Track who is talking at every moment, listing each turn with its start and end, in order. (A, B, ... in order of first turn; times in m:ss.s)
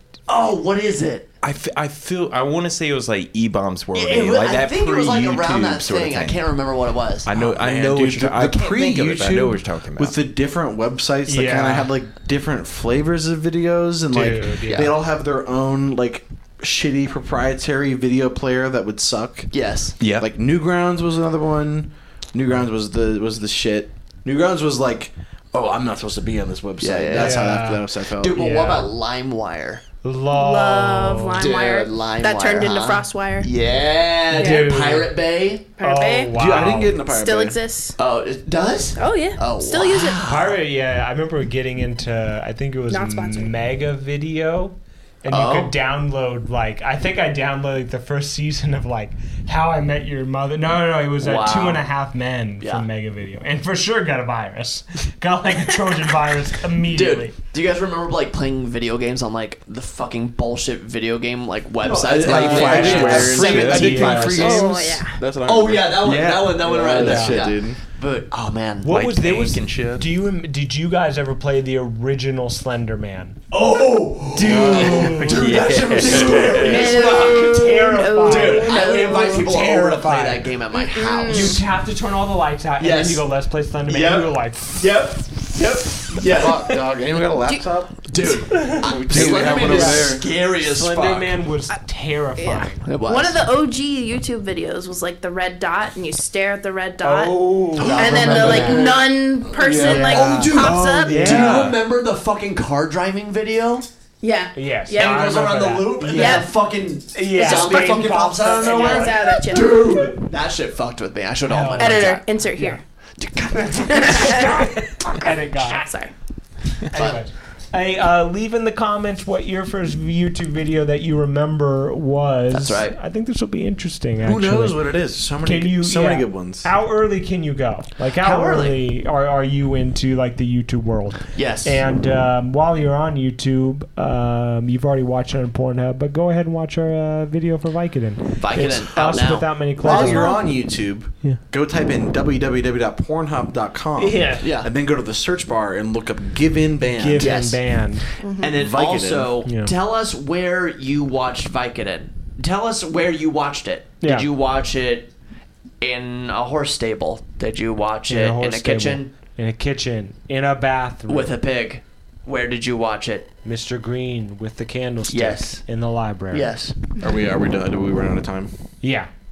0:00.3-0:01.3 A
0:01.4-0:06.6 B
0:03.9-0:07.3 A
0:07.2-0:10.2 B
0:07.4-0:19.5 C
0:08.5-0:08.9 A
0:11.3-0:11.9 D
0:14.1-0:14.9 D
0:14.7-0:15.0 A
0:19.5-0:20.0 A
0:20.0-0:20.3 B
0:20.2-0:28.4 C
0:26.8-0:29.8 A
0:27.1-0:28.9 D
0:30.0-0:31.5 D
0:30.3-0:33.5 E
0:31.4-0:35.7 A
0:34.3-0:35.1 D
0:34.3-0:34.7 E
0:35.8-0:36.3 E
0:35.8-0:37.0 D
0:36.3-0:37.6 C
0:37.0-0:38.0 E
0:38.0-0:40.6 A
0:39.0-0:40.2 E
0:40.2-0:57.3 D
0:42.9-0:43.5 E
0:45.3-0:45.7 A
0:51.2-0:51.8 A
0:52.6-0:52.9 A
0:56.9-1:04.3 A
1:01.8-1:07.8 C
1:02.0-1:04.8 B
1:03.2-1:04.6 D
1:04.3-1:05.2 E
1:05.4-1:09.0 A
1:06.0-1:07.2 B
1:06.8-1:07.5 D
1:08.8-1:13.4 D
1:08.9-1:10.1 B
1:13.5-1:21.6 A
1:14.4-1:20.5 D
1:14.4-1:15.4 C
1:15.4-1:16.6 B
1:16.6-1:19.5 E
1:20.7-1:21.6 E
1:21.2-1:24.9 D
1:22.8-1:23.2 A
1:23.9-1:26.8 A
1:26.2-1:28.1 C
1:28.1-1:31.3 A
1:28.5-1:28.9 D
1:28.6-1:30.3 C
1:29.5-1:32.8 D
1:32.4-1:41.6 E
1:32.8-1:33.4 A
1:37.0-1:39.0 D
1:37.8-1:43.9 A
1:38.2-1:39.0 C
1:39.6-1:41.8 D
1:41.3-1:41.8 B
1:44.2-1:45.3 E
1:44.6-1:46.6 D
1:44.9-1:52.3 A
1:46.0-1:46.5 E
1:47.1-1:49.7 D
1:47.4-1:50.1 E
1:51.5-1:52.8 D
1:51.8-1:52.8 E
1:53.2-1:54.4 A
1:53.9-1:55.8 D
1:53.9-1:56.1 E
1:56.9-1:57.2 A
1:56.9-2:04.8 D
2:02.5-2:03.0 A
2:04.2-2:06.7 C
2:05.4-2:20.4 D
2:08.2-2:08.8 A
2:11.3-2:11.8 A
2:18.4-2:19.5 A
2:19.8-2:27.4 C
2:19.8-2:20.4 E
2:24.0-2:24.4 D
2:24.4-2:24.7 A
2:26.9-2:28.0 D
2:27.2-2:27.6 A
2:28.2-2:28.5 E
2:28.4-2:35.1 A
2:28.5-2:29.3 C
2:29.4-2:29.7 D
2:34.0-2:34.3 D
2:35.8-2:39.1 A
2:38.1-2:41.3 D
2:41.1-2:43.3 A
2:43.4-2:46.5 D
2:45.1-2:45.6 A
2:46.3-2:46.8 A
2:47.0-2:48.5 C
2:48.8-2:49.1 D